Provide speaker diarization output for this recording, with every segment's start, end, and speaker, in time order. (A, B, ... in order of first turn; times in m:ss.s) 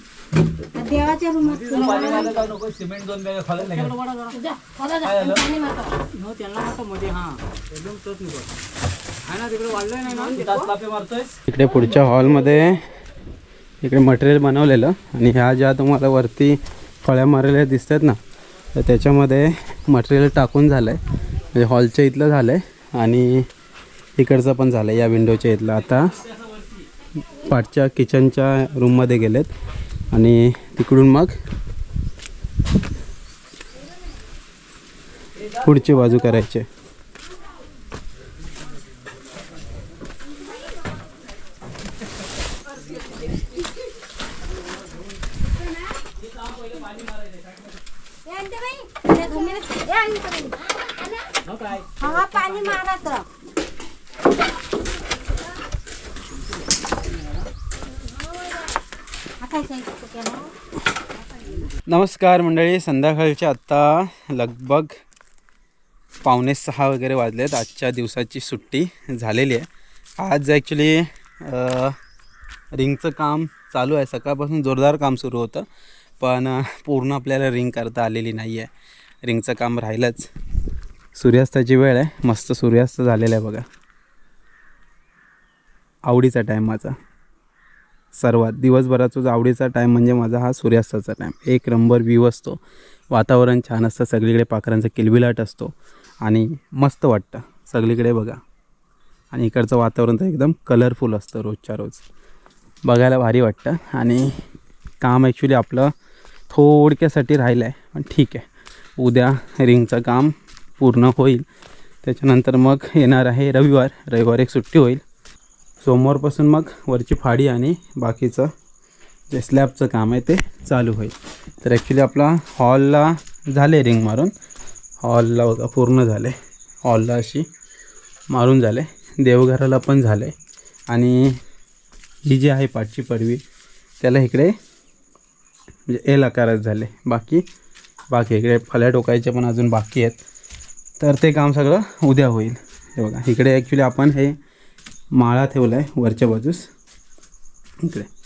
0:00.7-0:02.4 A
0:01.4-0:03.9 B
0:03.7-0:06.0 A
0:05.0-0:05.4 B
0:06.1-0:08.5 B
0:09.3-0:11.3 B
0:10.1-0:10.7 A
0:11.5-0:12.8 C
0:13.8-0:18.2 C
0:18.7-0:23.5 C
0:24.2-0:26.2 C
0:27.3-0:29.5 C
0:30.1-0:31.3 C
0:35.5-0:36.7 C
0:45.6-0:45.9 A
0:46.5-0:47.4 B
0:48.2-0:51.3 A
0:51.5-0:52.7 B
0:52.0-0:53.2 A
0:58.1-0:58.4 A
0:59.4-1:00.5 A
1:01.9-1:04.9 C
1:06.2-1:09.7 C
1:10.2-1:12.0 C
1:12.7-1:15.6 C
1:16.2-1:18.7 C
1:19.2-1:20.3 C
1:21.1-1:23.6 C
1:26.0-1:26.9 C
1:28.2-1:38.4 C
1:39.3-1:42.0 C
1:42.8-1:44.3 C
1:45.0-1:45.9 C
1:46.5-1:48.4 C
1:49.0-1:51.4 C
1:52.0-1:55.0 C
1:55.8-1:58.5 C
1:59.3-2:04.3 C
2:05.0-2:07.4 C
2:08.3-2:10.3 C
2:10.9-2:11.4 C
2:12.2-2:13.4 C
2:14.0-2:14.5 C
2:15.9-2:17.4 C
2:18.1-2:20.2 C
2:21.0-2:24.4 C
2:25.1-2:26.7 C
2:27.8-2:28.1 C